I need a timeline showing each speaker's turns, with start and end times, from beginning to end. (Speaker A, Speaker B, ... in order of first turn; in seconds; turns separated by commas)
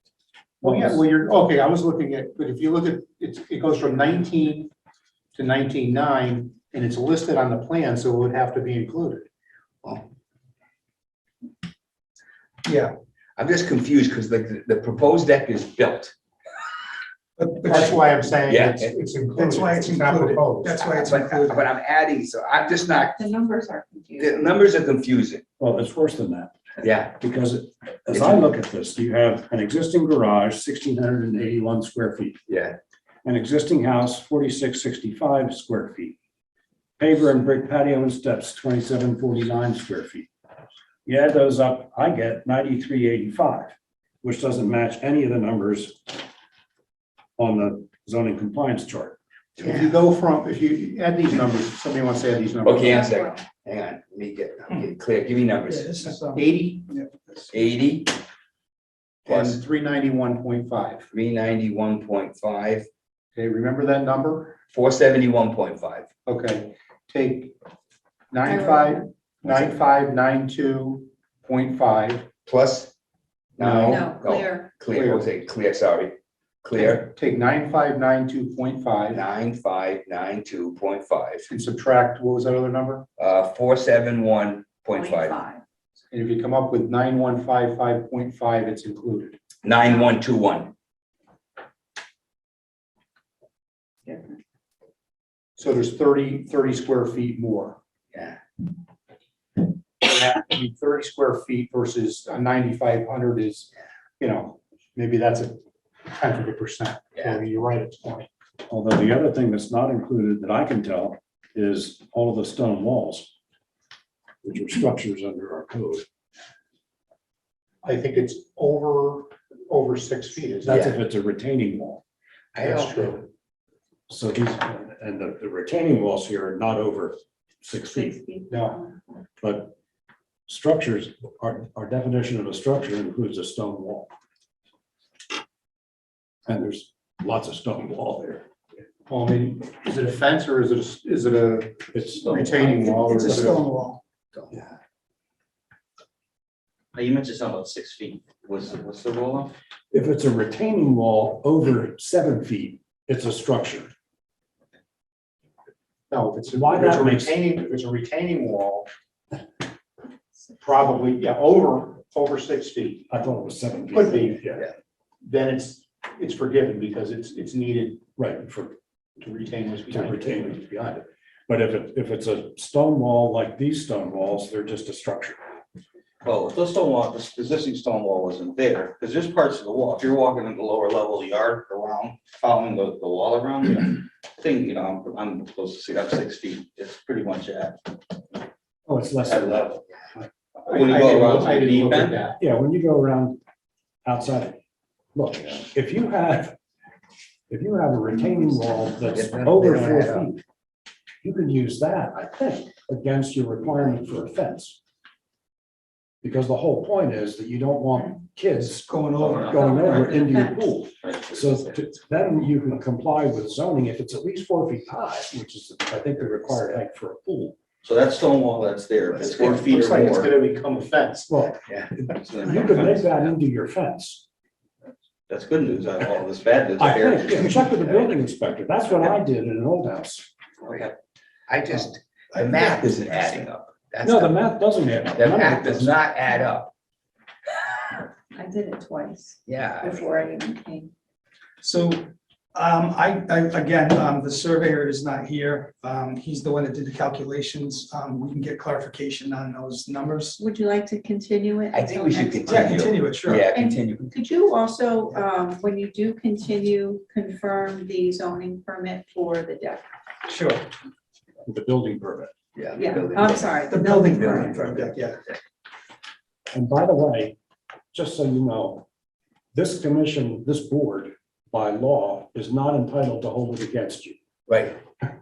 Speaker A: 0.6-4.7, Speaker A: 5.3-9.3, Speaker B: 12.7-12.9, Speaker C: 13.4-16.1, Speaker B: 17.4-17.9, Speaker A: 17.7-20.8, Speaker C: 18.5-18.9, Speaker B: 19.4-21.6, Speaker C: 20.9-23.2, Speaker D: 23.2-24.6, Speaker C: 24.2-25.4, Speaker E: 25.6-26.6, Speaker C: 26.8-27.2, Speaker E: 27.2-32.4, Speaker C: 28.1-28.5, Speaker C: 32.5-32.8, Speaker E: 33.2-36.2, Speaker E: 37.0-40.3, Speaker E: 41.1-46.2, Speaker E: 47.4-49.2, Speaker C: 49.6-49.9, Speaker A: 49.6-53.1, Speaker C: 52.6-56.0, Speaker D: 52.9-53.4, Speaker B: 55.7-57.3, Speaker A: 56.3-56.9, Speaker C: 57.5-58.2, Speaker A: 59.3-61.1, Speaker C: 59.3-59.6, Speaker C: 61.1-62.9, Speaker A: 63.4-64.5, Speaker C: 64.7-66.1, Speaker A: 66.3-67.5, Speaker A: 68.3-72.3, Speaker D: 68.4-69.1, Speaker C: 72.5-72.9, Speaker C: 73.6-77.1, Speaker A: 73.6-74.2, Speaker D: 73.9-74.7, Speaker A: 74.9-75.3, Speaker A: 76.9-79.2, Speaker C: 79.1-81.5, Speaker A: 81.5-83.0, Speaker C: 83.2-85.4, Speaker D: 84.9-85.6, Speaker A: 86.1-89.4, Speaker C: 89.6-90.7, Speaker A: 95.6-97.8, Speaker A: 100.0-108.3, Speaker E: 108.7-113.3, Speaker E: 114.4-116.0, Speaker A: 117.8-120.8, Speaker E: 120.6-122.0, Speaker C: 120.7-120.9, Speaker C: 122.5-123.1, Speaker A: 122.6-123.2, Speaker E: 124.1-128.2, Speaker D: 127.9-129.0, Speaker A: 128.5-128.8, Speaker E: 129.4-129.8, Speaker E: 130.5-134.1, Speaker E: 136.5-138.4, Speaker A: 139.1-143.6, Speaker E: 141.9-142.8, Speaker F: 142.3-143.2, Speaker B: 143.0-144.0, Speaker F: 146.9-149.5, Speaker E: 149.9-153.9, Speaker A: 156.1-158.9, Speaker E: 156.5-157.4, Speaker A: 160.6-163.1, Speaker E: 163.1-164.7, Speaker A: 163.9-164.4, Speaker A: 165.2-168.1, Speaker E: 168.2-168.8, Speaker A: 169.2-170.6, Speaker E: 169.9-175.4, Speaker F: 176.2-188.1, Speaker E: 188.9-189.7, Speaker F: 189.2-189.8, Speaker F: 190.6-192.2, Speaker A: 190.7-192.4, Speaker E: 192.4-193.4, Speaker E: 194.1-194.6, Speaker E: 195.2-196.6, Speaker E: 197.5-200.4, Speaker C: 199.1-200.3, Speaker E: 201.2-204.8, Speaker E: 206.2-217.6, Speaker B: 208.9-209.7, Speaker F: 209.2-210.4, Speaker D: 209.5-210.6, Speaker F: 211.0-211.4, Speaker F: 217.8-220.3, Speaker A: 219.2-221.3, Speaker E: 221.3-224.2, Speaker F: 222.2-223.3, Speaker F: 225.3-227.7, Speaker E: 226.8-230.3, Speaker C: 231.5-234.4, Speaker B: 232.3-233.4, Speaker E: 234.0-235.9, Speaker C: 235.2-236.7, Speaker D: 238.3-240.9, Speaker C: 239.5-240.2, Speaker B: 241.6-250.4, Speaker D: 250.4-252.8, Speaker C: 251.7-254.1, Speaker B: 252.5-253.5, Speaker D: 253.5-259.9, Speaker B: 260.3-260.7, Speaker E: 261.4-262.3, Speaker C: 262.6-263.6, Speaker D: 262.8-264.7, Speaker B: 263.7-265.2, Speaker C: 264.2-264.9, Speaker E: 266.5-267.4, Speaker E: 267.9-268.9, Speaker E: 269.5-274.2, Speaker C: 274.5-274.8